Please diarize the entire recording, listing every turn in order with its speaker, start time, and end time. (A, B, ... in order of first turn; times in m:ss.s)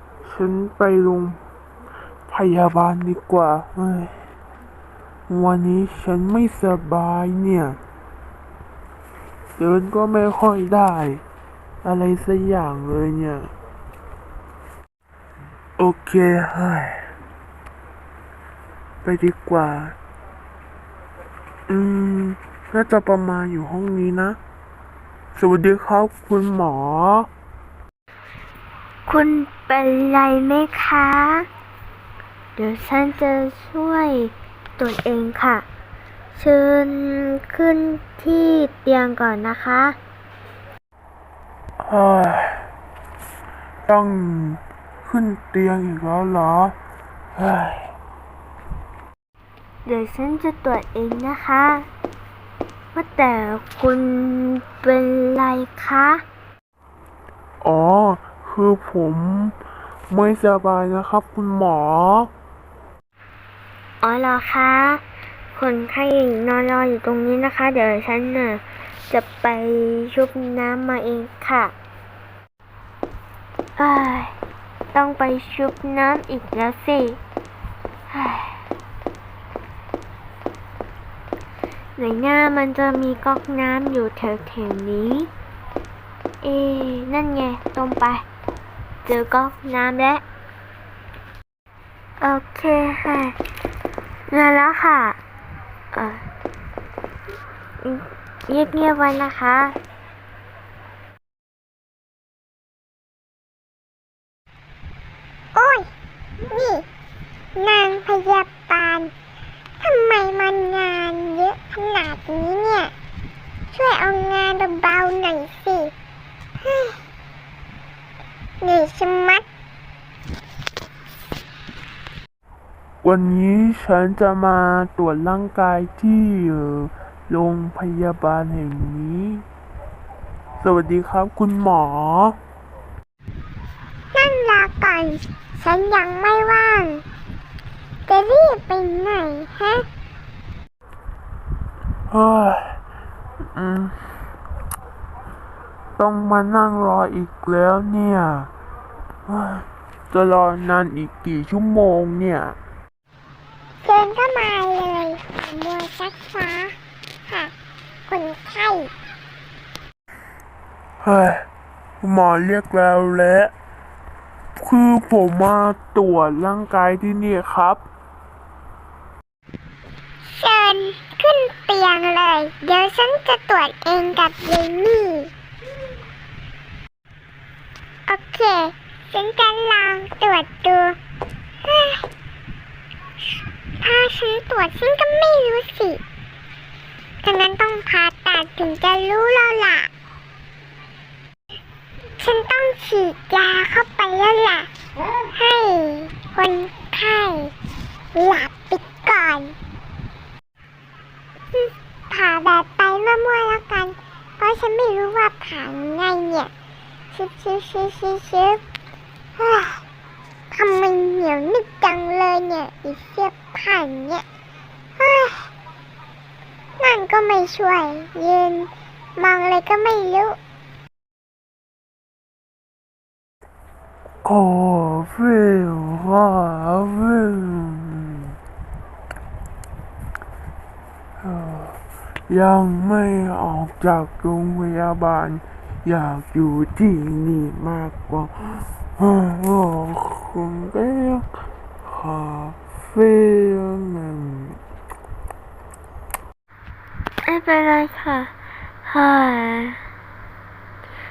0:00.2-0:01.4 A
0:02.3-0:04.3 A
0:05.3-0:07.8 A
0:09.6-0:11.2 A
0:11.8-0:13.5 A
0:15.8-0:17.1 A
0:19.0-0:20.0 A
0:21.7-0:24.4 A
0:25.4-0:27.3 A
0:29.1-0:31.5 B
0:32.6-0:35.6 B
0:36.3-0:40.0 B
0:41.8-0:42.7 A
0:43.8-0:46.8 A
0:47.3-0:47.9 A
0:49.8-0:51.9 B
0:52.9-0:56.2 B
0:57.6-0:59.6 A
1:00.1-1:02.3 A
1:04.0-1:05.0 B
1:05.5-1:11.7 B
1:13.8-1:14.4 B
1:14.9-1:17.2 B
1:18.1-1:18.6 B
1:22.0-1:25.3 B
1:26.4-1:28.2 B
1:29.0-1:30.2 B
1:32.2-1:33.4 B
1:34.3-1:35.2 B
1:35.9-1:36.2 B
1:37.8-1:39.8 B
1:45.5-1:45.9 C
1:46.4-1:46.8 C
1:47.6-1:49.1 C
1:49.8-1:52.9 C
1:53.7-1:55.9 C
1:56.6-1:57.0 C
1:58.6-1:59.4 C
2:03.0-2:09.4 A
2:10.6-2:12.4 A
2:14.1-2:17.0 C
2:18.1-2:19.9 C
2:22.1-2:22.8 A
2:23.5-2:24.3 A
2:26.0-2:28.5 A
2:29.2-2:32.6 A
2:33.8-2:36.8 C
2:37.3-2:37.5 C
2:38.1-2:38.9 C
2:41.0-2:41.4 A
2:42.0-2:43.5 A
2:44.6-2:47.8 A
2:50.2-2:55.3 C
2:58.1-3:01.0 C
3:01.6-3:02.1 C
3:03.2-3:06.0 C
3:07.2-3:09.9 C
3:12.2-3:14.7 C
3:15.2-3:17.5 C
3:18.1-3:19.5 C
3:21.5-3:26.5 C
3:27.1-3:28.6 C
3:29.4-3:29.8 C
3:30.5-3:34.2 C
3:35.0-3:35.5 C
3:36.8-3:40.4 C
3:44.2-3:48.4 A
3:51.2-4:01.3 A
4:01.8-4:04.6 A
4:07.2-4:08.3 B
4:08.8-4:09.8 B